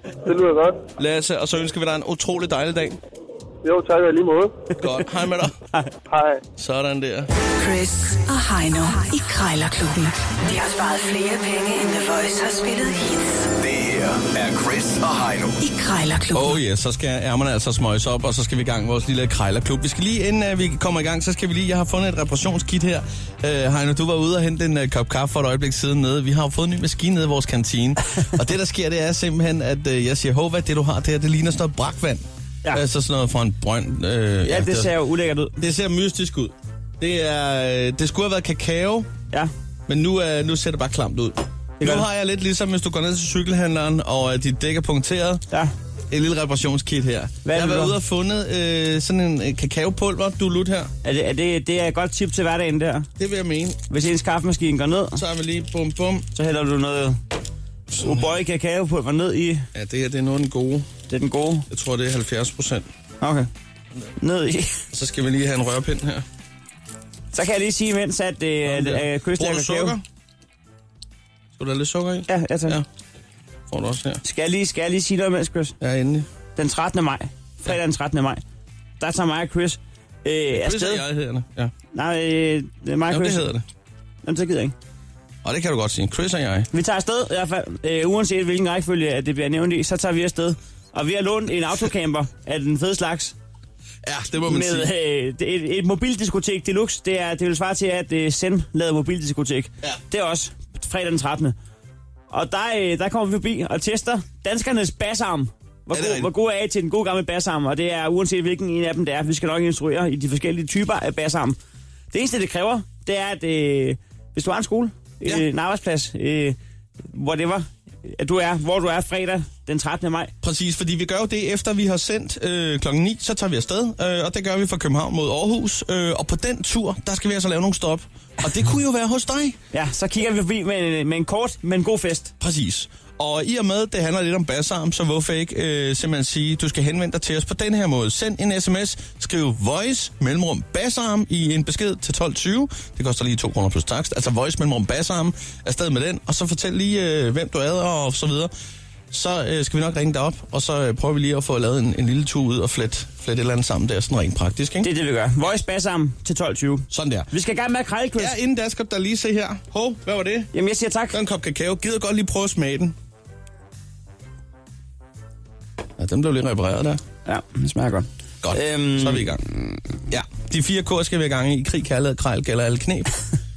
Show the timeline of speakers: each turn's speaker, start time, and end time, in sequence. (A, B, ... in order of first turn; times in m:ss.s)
0:00.2-0:00.8 A
0:01.0-0:03.0 B
0:03.6-0:04.6 A
0:04.8-0:05.6 B
0:06.1-0:06.4 A
0:06.6-0:07.3 B
0:07.6-0:13.5 C
0:13.6-0:15.6 D
0:15.6-0:16.6 C
0:16.3-0:34.9 B
0:34.4-0:35.6 E
0:35.6-0:39.1 B
0:39.9-0:45.4 B
0:41.8-0:42.0 E
0:46.1-0:50.9 B
0:47.4-0:48.0 E
0:51.0-0:53.1 E
0:53.2-0:53.8 B
0:53.9-0:55.2 E
0:55.2-0:56.3 B
0:56.3-0:57.2 E
0:57.9-0:58.3 B
0:58.0-0:59.7 E
0:59.7-1:00.9 B
1:01.1-1:01.7 E
1:01.7-1:02.9 B
1:03.2-1:03.5 E
1:04.2-1:04.8 E
1:04.9-1:06.2 B
1:07.3-1:10.0 E
1:08.6-1:10.0 B
1:11.6-1:12.8 B
1:12.3-1:12.8 E
1:13.7-1:14.2 B
1:14.2-1:15.8 E
1:15.8-1:16.3 B
1:16.6-1:18.4 E
1:19.0-1:21.0 E
1:20.5-1:21.7 B
1:21.9-1:23.4 E
1:23.1-1:23.6 B
1:24.2-1:24.8 E
1:25.4-1:26.7 B
1:26.7-1:33.4 E
1:34.0-1:34.9 B
1:34.4-1:41.6 E
1:42.3-1:51.6 E
1:45.9-1:46.3 B
1:52.1-1:56.6 E
1:57.1-2:00.3 E
2:00.4-2:09.6 B
2:09.7-2:12.3 E
2:12.4-2:28.5 B
2:29.1-2:34.9 B
2:34.8-2:38.4 E
2:36.9-2:37.3 B
2:38.2-2:40.5 B
2:40.5-2:41.2 E
2:41.1-2:43.0 B
2:46.0-2:47.0 B
2:47.2-2:49.8 E
2:48.4-2:49.4 B
2:50.1-2:53.2 B